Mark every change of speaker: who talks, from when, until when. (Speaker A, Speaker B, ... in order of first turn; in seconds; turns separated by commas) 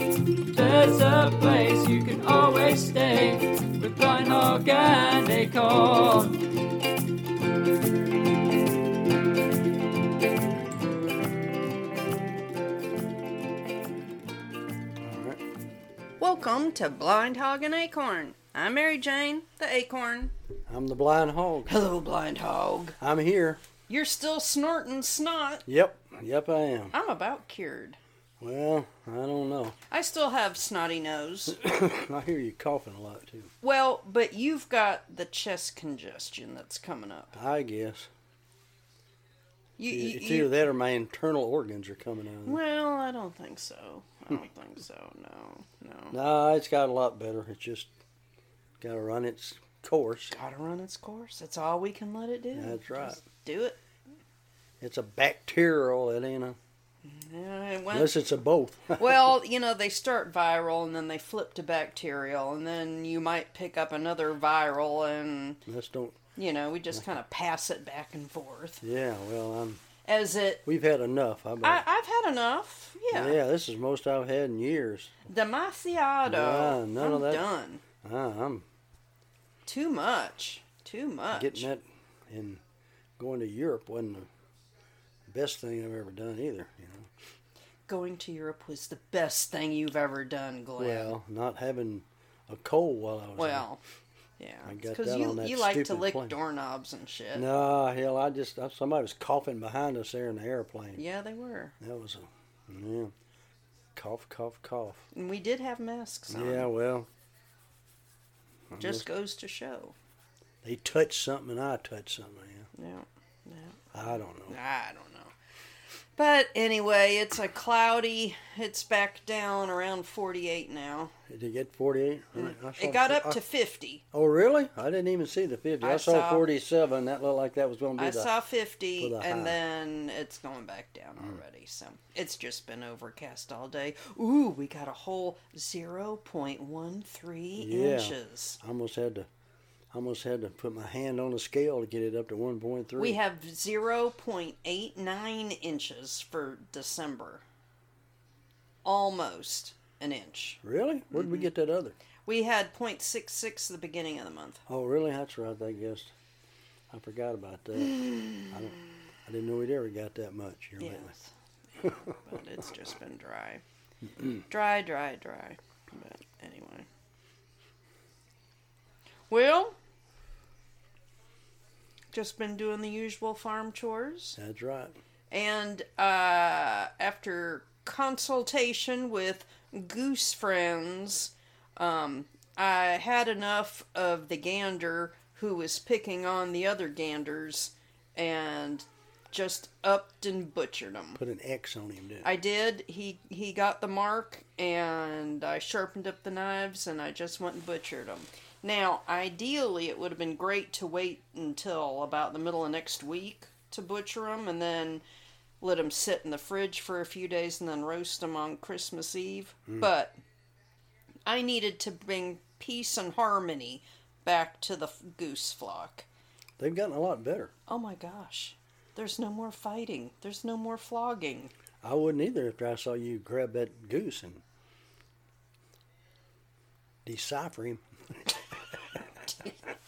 Speaker A: 0.5-6.4, Speaker B: 15.0-15.4, Speaker C: 16.2-20.3, Speaker B: 20.7-21.8, Speaker C: 21.6-23.0, Speaker B: 23.0-23.6, Speaker C: 23.9-25.6, Speaker B: 25.6-26.9, Speaker C: 26.9-28.0, Speaker B: 28.4-29.8, Speaker C: 29.9-31.6, Speaker B: 31.5-33.5, Speaker C: 33.6-37.4, Speaker B: 37.3-38.1, Speaker C: 39.8-40.6, Speaker B: 39.9-42.6, Speaker C: 42.4-46.2, Speaker B: 46.1-47.9, Speaker B: 48.8-50.4, Speaker C: 50.3-53.8, Speaker B: 52.5-53.2, Speaker B: 54.8-56.6, Speaker C: 57.0-58.2, Speaker B: 57.9-59.4, Speaker C: 58.9-65.6, Speaker B: 65.7-66.2, Speaker C: 66.3-68.8, Speaker B: 66.9-67.2, Speaker B: 68.8-69.8, Speaker C: 70.0-70.6, Speaker B: 70.7-71.8, Speaker C: 71.6-73.4, Speaker B: 73.1-75.1, Speaker C: 75.2-77.8, Speaker B: 76.2-77.5, Speaker B: 78.0-78.6, Speaker C: 79.6-81.7, Speaker B: 81.3-82.6, Speaker B: 83.2-84.3, Speaker B: 85.3-87.1, Speaker C: 87.9-91.2, Speaker B: 90.8-93.7, Speaker C: 93.3-93.8, Speaker C: 94.4-97.5, Speaker B: 94.6-96.4, Speaker B: 97.3-101.0, Speaker C: 101.0-101.7, Speaker B: 101.8-103.1, Speaker B: 103.9-105.1, Speaker C: 105.1-106.7, Speaker B: 106.3-107.1, Speaker B: 108.7-109.0, Speaker C: 108.8-110.0, Speaker B: 110.6-112.7, Speaker C: 112.7-115.3, Speaker B: 113.9-114.6, Speaker C: 116.1-121.1, Speaker B: 121.3-123.4, Speaker C: 122.3-124.0, Speaker B: 124.1-128.3, Speaker C: 125.8-126.5, Speaker C: 128.0-138.6, Speaker B: 129.0-129.6, Speaker B: 137.6-139.3, Speaker B: 139.9-143.2, Speaker C: 142.9-147.4, Speaker C: 148.8-151.5, Speaker B: 150.6-152.0, Speaker C: 152.2-154.6, Speaker B: 154.7-156.1, Speaker B: 156.9-161.2, Speaker C: 157.9-158.5, Speaker C: 160.8-163.6, Speaker B: 161.8-162.2, Speaker C: 164.2-166.9, Speaker C: 169.3-169.8, Speaker C: 172.1-174.4, Speaker B: 174.4-174.9, Speaker C: 175.3-191.2, Speaker B: 191.2-192.3, Speaker C: 192.2-205.0, Speaker C: 205.6-210.2, Speaker C: 211.2-216.1, Speaker B: 216.6-217.5, Speaker C: 217.7-221.5, Speaker B: 221.8-224.4, Speaker B: 227.0-229.0